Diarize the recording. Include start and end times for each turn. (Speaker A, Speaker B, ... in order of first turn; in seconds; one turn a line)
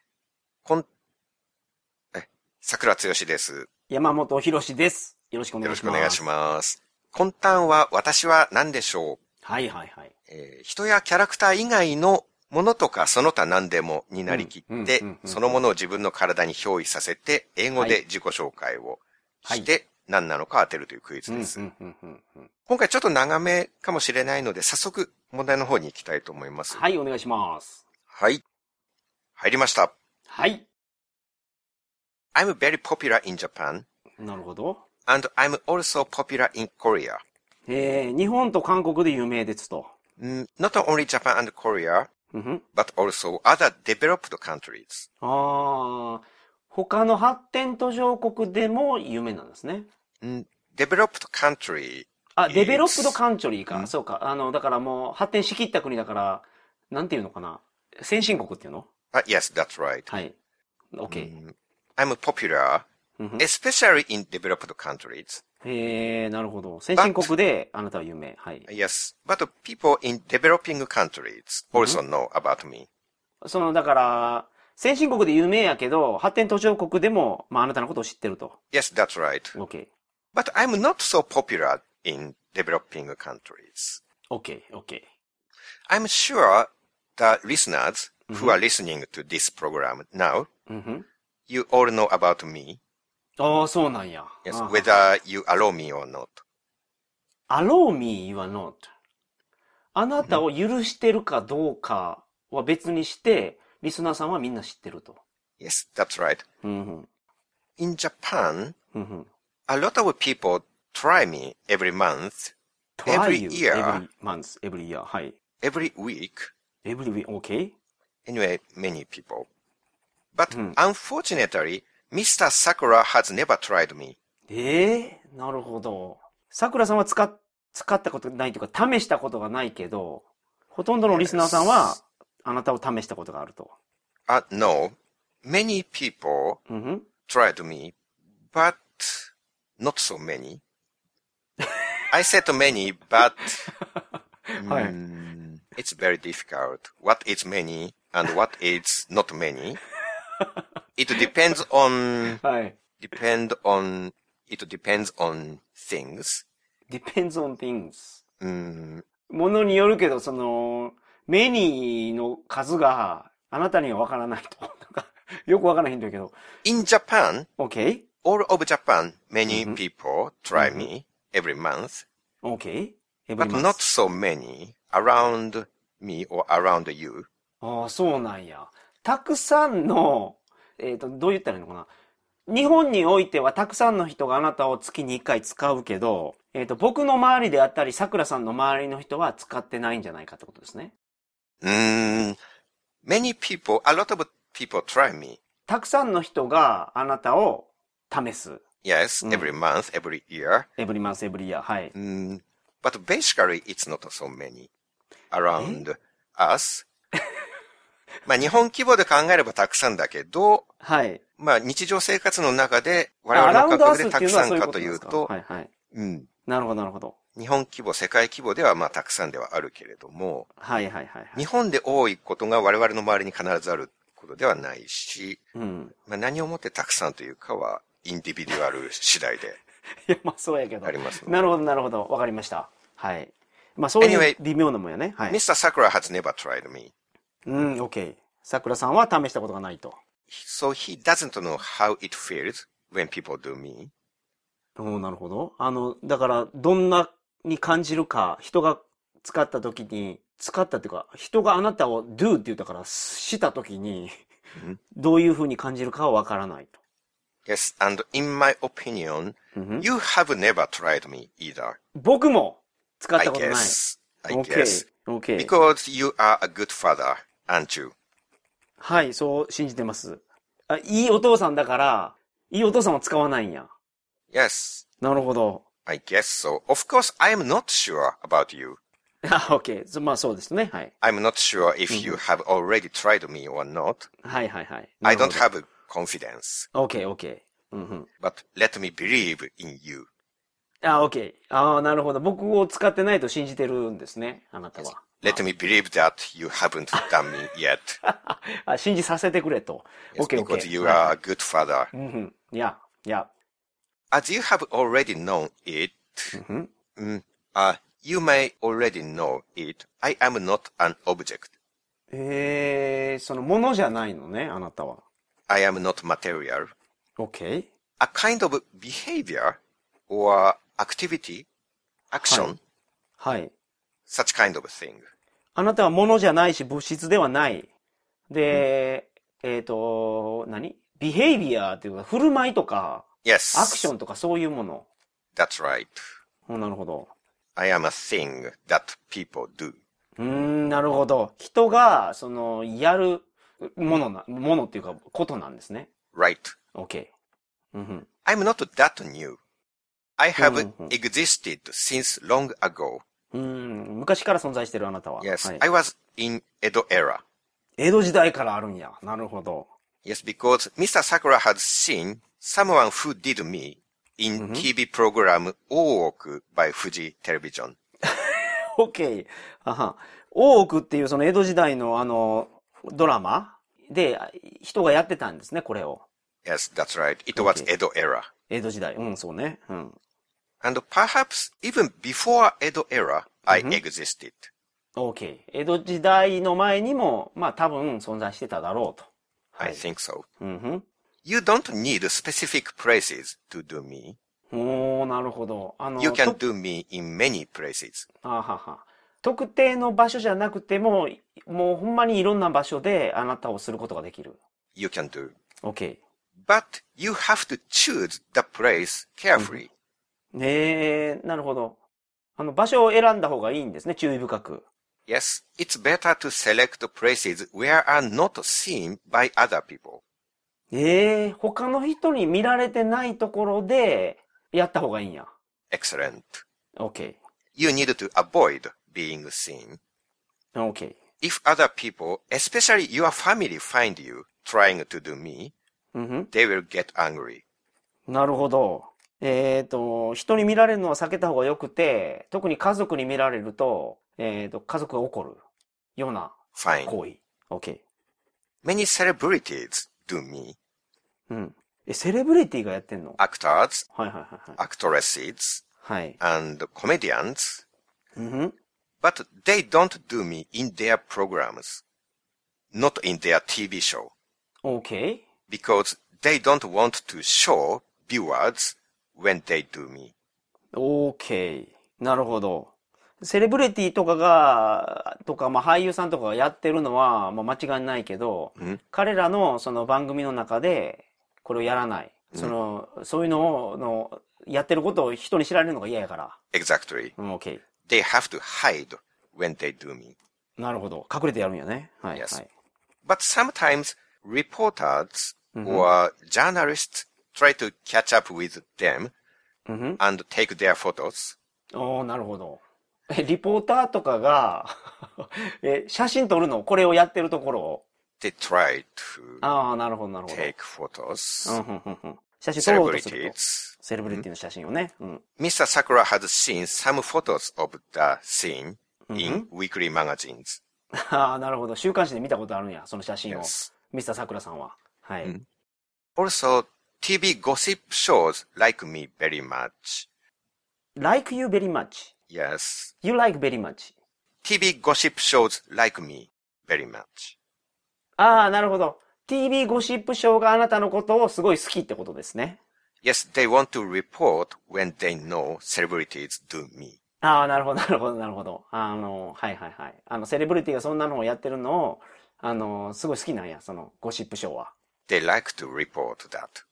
Speaker A: 2.1-3.7
Speaker B: 3.9-6.2
Speaker A: 5.6-9.2
Speaker B: 9.4-10.1
Speaker A: 10.3-21.6
Speaker B: 14.3-15.6
Speaker B: 21.3-22.5
Speaker A: 22.7-26.8
Speaker B: 26.7-27.8
Speaker A: 28.1-28.4
Speaker A: 29.4-29.9
Speaker B: 30.3-30.6
Speaker A: 32.4-33.9
Speaker B: 34.2-34.8
Speaker A: 35.0-37.2
Speaker B: 37.7-39.9
Speaker A: 40.2-42.1
Speaker B: 42.3-42.6
Speaker A: 42.7-45.1
Speaker B: 45.2-49.9
Speaker A: 50.2-53.2
Speaker B: 52.4-58.9
Speaker A: 59.1-60.1
Speaker B: 60.1-60.3
Speaker B: 60.9-61.3
Speaker A: 61.1-62.9
Speaker B: 63.2-63.5
Speaker A: 63.4-65.4
Speaker B: 65.6-68.7
Speaker A: 67.0-67.3
Speaker A: 68.7-72.9
Speaker B: 71.7-72.0
Speaker B: 73.4-78.6
Speaker A: 78.7-79.6
Speaker B: 79.5-79.9
Speaker A: 80.3-84.0
Speaker B: 84.3-85.1
Speaker A: 85.9-90.5
Speaker B: 88.3-88.6
Speaker B: 90.7-91.1
Speaker A: 91.5-92.8
Speaker B: 93.4-95.0
Speaker A: 94.5-96.4
Speaker B: 97.5-98.9
Speaker B: 100.0-105.2
Speaker A: 105.6-106.4
Speaker B: 106.6-107.1
Speaker A: 107.8-108.8
Speaker B: 108.9-109.3
Speaker A: 109.7-112.5
Speaker B: 113.0-115.3
Speaker A: 113.1-114.0
Speaker A: 115.6-116.5
Speaker B: 116.8-117.7
Speaker A: 118.3-119.5
Speaker A: 120.3-124.2
Speaker B: 120.5-120.8
Speaker B: 124.5-133.7
Speaker A: 131.1-132.0
Speaker A: 134.3-136.6
Speaker B: 136.7-137.1
Speaker A: 137.2-137.9
Speaker A: 138.5-140.6
Speaker A: 142.1-143.7
Speaker B: 144.5-144.9
Speaker A: 144.6-149.8
Speaker A: 151.0-152.4
Speaker B: 152.4-152.8
Speaker A: 153.0-156.4
Speaker B: 156.9-158.2
Speaker A: 158.4-159.0
Speaker B: 159.3-166.3
Speaker A: 166.6-167.5
Speaker B: 167.6-168.1
Speaker A: 168.2-172.0
Speaker B: 169.5-169.8
Speaker B: 170.6-170.9
Speaker B: 172.4-173.8
Speaker A: 173.4-177.3
Speaker B: 177.6-181.9
Speaker B: 182.5-190.9
Speaker A: 191.6-192.4
Speaker A: 193.0-195.4
Speaker B: 195.7-198.6
Speaker A: 198.8-200.7
Speaker B: 199.2-199.5
Speaker B: 200.8-201.9
Speaker A: 201.9-204.7
Speaker A: 205.3-206.9
Speaker B: 205.6-205.8
Speaker A: 208.2-210.7
Speaker B: 210.8-211.2
Speaker A: 211.4-215.3
Speaker B: 213.3-215.7
Speaker A: 215.9-216.3
Speaker B: 216.5-217.2
Speaker A: 217.3-220.5
Speaker B: 220.6-221.4
Speaker A: 221.3-225.4
Speaker B: 225.5-225.9
Speaker A: 226.1-229.6
Speaker B: 230.1-235.4
Speaker A: 230.8-231.5
Speaker A: 234.0-234.4
Speaker A: 235.3-236.9
Speaker B: 237.4-240.0
Speaker A: 240.3-243.9
Speaker B: 244.8-254.1
Speaker B: 254.9-256.8
Speaker A: 257.4-261.8
Speaker B: 259.6-259.9
Speaker B: 261.9-263.8
Speaker A: 263.1-267.9
Speaker B: 264.3-265.5
Speaker B: 268.8-273.7
Speaker A: 274.3-274.8
Speaker B: 275.0-275.6
Speaker A: 275.9-278.8
Speaker B: 279.2-280.9
Speaker A: 281.0-284.1
Speaker B: 281.9-282.2
Speaker B: 284.2-285.4
Speaker A: 285.0-286.7
Speaker B: 286.7-288.1
Speaker A: 288.2-290.1
Speaker B: 290.8-295.4
Speaker A: 294.8-298.0
Speaker B: 298.0-301.1
Speaker A: 300.1-301.9
Speaker B: 301.9-303.3
Speaker A: 304.1-306.4
Speaker B: 306.3-306.7
Speaker A: 306.9-311.5
Speaker B: 312.1-315.0
Speaker A: 315.5-316.7
Speaker B: 317.2-317.7
Speaker A: 318.0-321.5
Speaker A: 322.1-322.6
Speaker B: 322.2-322.5
Speaker B: 323.2-323.5
Speaker A: 324.1-325.1
Speaker B: 325.6-327.7
Speaker B: 328.3-334.9
Speaker A: 333.2-333.9
Speaker A: 335.4-336.0
Speaker B: 336.5-337.1
Speaker A: 337.6-339.8
Speaker B: 340.2-345.9
Speaker A: 346.1-346.6
Speaker B: 346.8-347.1
Speaker B: 347.7-348.1
Speaker A: 348.2-349.4
Speaker A: 350.2-353.0
Speaker B: 350.4-350.9
Speaker B: 353.3-355.6
Speaker A: 355.2-357.2
Speaker B: 357.8-359.7
Speaker A: 360.0-367.8
Speaker B: 364.4-364.7
Speaker B: 368.1-376.1
Speaker A: 376.4-378.3
Speaker B: 377.3-377.7
Speaker B: 378.5-379.9
Speaker A: 380.6-384.5
Speaker B: 383.5-383.8
Speaker B: 384.9-389.8
Speaker A: 389.6-390.2
Speaker B: 390.4-390.9
Speaker A: 391.2-394.2
Speaker B: 394.5-396.4
Speaker A: 396.0-398.1
Speaker B: 398.2-404.4
Speaker A: 404.8-405.4
Speaker B: 405.6-406.0
Speaker A: 406.4-409.7
Speaker B: 409.4-409.6
Speaker B: 410.3-411.8
Speaker B: 412.4-414.6
Speaker A: 415.1-420.0
Speaker B: 420.7-425.3
Speaker A: 425.7-426.4
Speaker B: 426.8-427.1
Speaker A: 427.6-429.8
Speaker B: 430.6-431.0
Speaker A: 431.2-435.5
Speaker B: 435.9-436.3
Speaker A: 436.3-437.4
Speaker B: 438.1-445.4
Speaker B: 446.0-447.8
Speaker A: 446.6-446.9
Speaker A: 448.6-450.6
Speaker B: 451.3-453.2
Speaker A: 453.2-453.8
Speaker B: 453.9-454.6
Speaker A: 454.6-455.6
Speaker B: 455.8-456.2
Speaker A: 456.2-457.6
Speaker B: 458.1-458.5
Speaker A: 459.0-461.8
Speaker A: 462.7-464.1
Speaker B: 464.6-465.2
Speaker A: 465.5-470.1
Speaker B: 470.7-486.4
Speaker A: 486.5-487.1
Speaker B: 487.2-487.6
Speaker A: 487.9-490.1
Speaker B: 490.6-492.5
Speaker A: 492.1-492.4
Speaker A: 493.1-499.1
Speaker B: 495.6-495.9
Speaker B: 499.7-500.0
Speaker A: 500.0-501.4
Speaker B: 501.7-507.8
Speaker A: 508.2-509.4
Speaker B: 509.4-510.5
Speaker A: 510.3-511.6
Speaker B: 511.4-515.2
Speaker A: 512.6-514.2
Speaker A: 515.4-520.6
Speaker B: 519.1-519.5
Speaker B: 520.9-525.3
Speaker A: 523.3-523.7
Speaker A: 526.2-530.1
Speaker B: 531.0-532.1
Speaker A: 532.3-532.9
Speaker B: 533.0-533.9
Speaker A: 534.4-537.4
Speaker B: 538.2-542.6
Speaker A: 543.0-547.0
Speaker B: 547.2-554.7
Speaker A: 555.1-556.6